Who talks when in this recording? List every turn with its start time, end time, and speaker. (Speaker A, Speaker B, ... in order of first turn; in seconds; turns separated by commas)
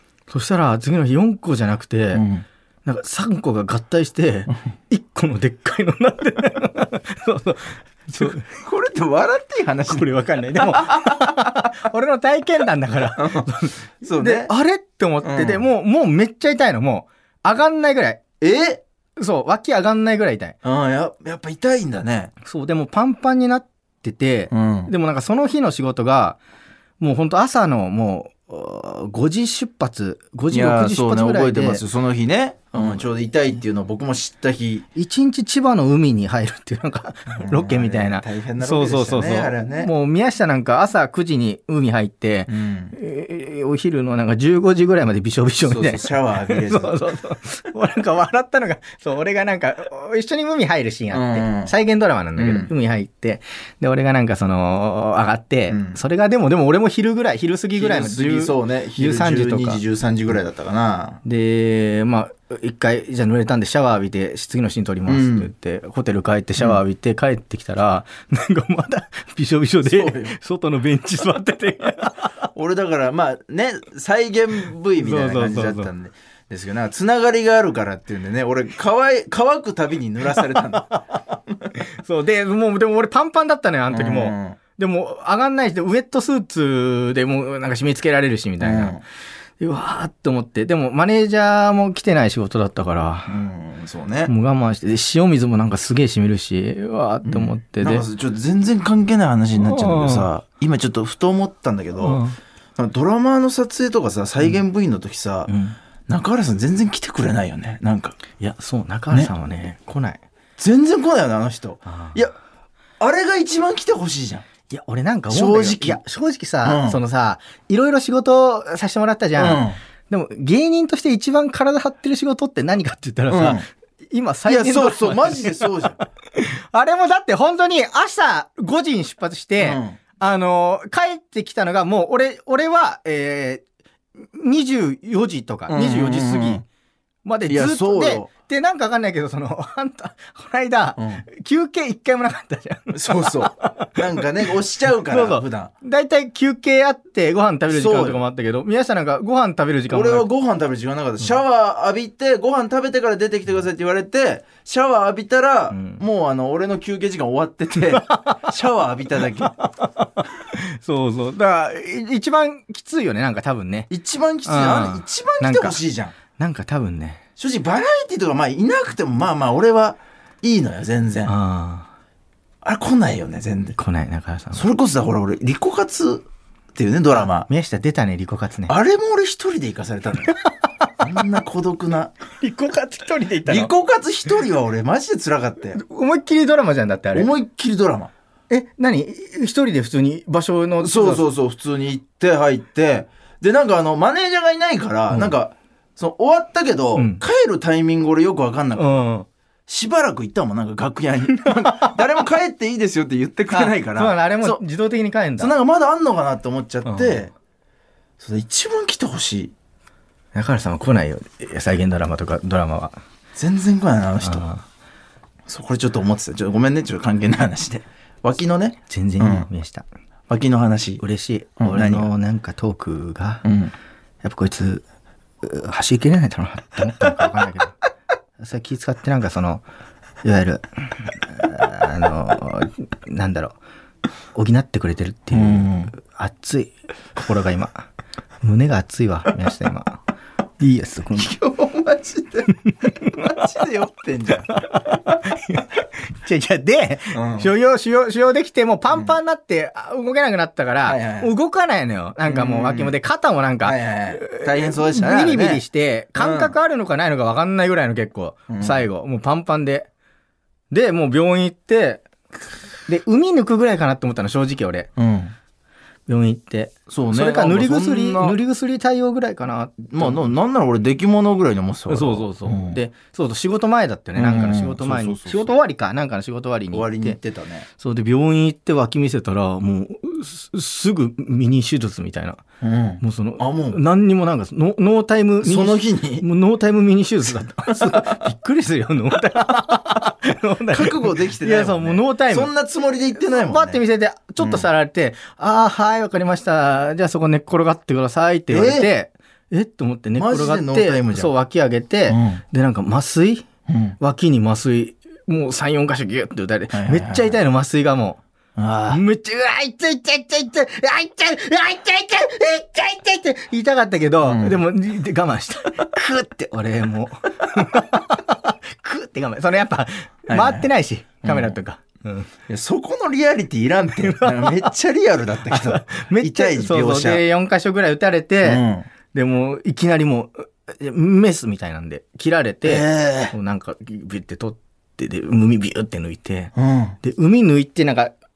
Speaker A: 0.3-2.2, Speaker B: 2.1-2.5, Speaker A: 2.8-8.5, Speaker B: 8.2-11.3, Speaker A: 9.9-18.2, Speaker B: 13.1-13.5, Speaker B: 14.0-14.5, Speaker B: 15.2-15.7, Speaker B: 18.4-18.8, Speaker A: 19.2-20.6, Speaker B: 20.6-22.3, Speaker A: 22.4-26.4, Speaker B: 24.5-24.9, Speaker A: 27.0-31.8, Speaker B: 30.5-34.9, Speaker A: 32.8-33.0, Speaker A: 34.9-59.8, Speaker B: 37.3-39.9, Speaker B: 42.5-42.9, Speaker B: 45.6-47.0, Speaker B: 51.1-51.7, Speaker B: 52.4-52.7, Speaker B: 55.7-56.0, Speaker B: 57.7-61.2, Speaker A: 61.2-72.3, Speaker B: 65.1-65.5, Speaker B: 69.8-70.3, Speaker B: 72.5-81.0, Speaker A: 75.0-75.9, Speaker A: 81.8-89.0, Speaker B: 83.9-84.6, Speaker B: 88.6-89.0, Speaker A: 89.6-93.4, Speaker B: 93.3-94.3, Speaker A: 94.2-98.0, Speaker B: 97.2-102.2, Speaker A: 99.6-100.3, Speaker A: 102.0-102.4, Speaker B: 102.8-105.5, Speaker A: 105.5-105.8, Speaker B: 106.1-108.2, Speaker A: 108.4-110.2, Speaker B: 110.6-112.3, Speaker A: 111.8-112.2, Speaker B: 113.0-114.4, Speaker A: 114.7-133.6, Speaker B: 115.3-116.0, Speaker B: 116.6-117.0, Speaker B: 119.4-119.8, Speaker B: 123.3-123.7, Speaker B: 124.4-126.0, Speaker B: 129.6-130.0, Speaker A: 134.2-136.6, Speaker B: 135.7-136.6, Speaker A: 137.2-143.9, Speaker B: 137.5-138.3, Speaker B: 141.0-141.2, Speaker B: 142.9-145.7, Speaker A: 145.1-150.2, Speaker B: 147.7-148.2, Speaker B: 149.9-159.6, Speaker A: 155.7-156.0, Speaker A: 157.9-158.4, Speaker A: 159.6-163.9, Speaker B: 163.9-166.1, Speaker A: 164.4-165.8, Speaker A: 166.3-167.2, Speaker B: 167.4-171.3, Speaker A: 171.2-171.9, Speaker B: 172.6-173.8, Speaker A: 173.8-174.7, Speaker B: 174.5-177.5, Speaker A: 177.1-178.7, Speaker B: 178.7-180.3, Speaker B: 181.0-182.1, Speaker A: 182.4-183.7, Speaker B: 183.4-185.8, Speaker A: 185.8-187.3, Speaker B: 187.1-188.1, Speaker A: 188.5-191.2, Speaker B: 190.8-199.0, Speaker A: 196.9-197.2, Speaker A: 198.8-199.3, Speaker B: 199.7-204.6, Speaker A: 203.5-205.5, Speaker B: 205.4-207.3, Speaker A: 206.8-207.2, Speaker B: 208.2-209.5, Speaker A: 210.3-212.9, Speaker B: 213.3-214.4, Speaker A: 214.2-214.6, Speaker B: 215.5-219.5, Speaker A: 218.9-219.8, Speaker B: 220.3-221.0, Speaker A: 221.0-223.4, Speaker B: 221.6-222.1, Speaker B: 223.4-223.7, Speaker A: 224.2-224.8, Speaker A: 225.4-227.8, Speaker A: 228.4-229.6, Speaker A: 230.2-233.6, Speaker A: 234.3-237.8, Speaker B: 235.3-235.9, Speaker A: 238.4-240.0, Speaker A: 240.6-241.3, Speaker B: 241.1-242.5, Speaker A: 242.7-243.1, Speaker B: 243.1-244.5, Speaker A: 244.5-259.9, Speaker B: 247.1-247.5, Speaker B: 250.8-251.3, Speaker B: 252.3-252.9, Speaker B: 253.6-255.6, Speaker B: 256.2-256.5, Speaker B: 258.5-258.8, Speaker A: 260.7-262.0, Speaker A: 262.9-264.9, Speaker B: 265.0-265.3, Speaker A: 266.1-270.3, Speaker B: 266.9-268.4, Speaker B: 269.9-272.8, Speaker A: 271.9-277.2, Speaker B: 274.1-275.5, Speaker B: 276.7-277.7, Speaker A: 277.8-282.4, Speaker B: 282.6-283.8, Speaker A: 283.0-292.5, Speaker B: 285.4-286.2, Speaker B: 287.7-288.2, Speaker B: 290.7-293.8, Speaker A: 293.1-303.4, Speaker B: 294.4-294.7, Speaker B: 298.5-298.9, Speaker B: 300.1-301.3, Speaker B: 302.1-302.4, Speaker B: 303.7-303.9, Speaker A: 304.0-308.2, Speaker B: 306.7-307.3, Speaker B: 308.6-309.0, Speaker A: 308.9-322.3, Speaker B: 314.2-314.6, Speaker B: 320.3-320.7, Speaker B: 321.2-321.6, Speaker B: 322.5-327.2, Speaker A: 324.0-324.6, Speaker A: 325.4-338.1, Speaker B: 328.4-328.9, Speaker B: 332.6-333.3, Speaker B: 336.6-337.0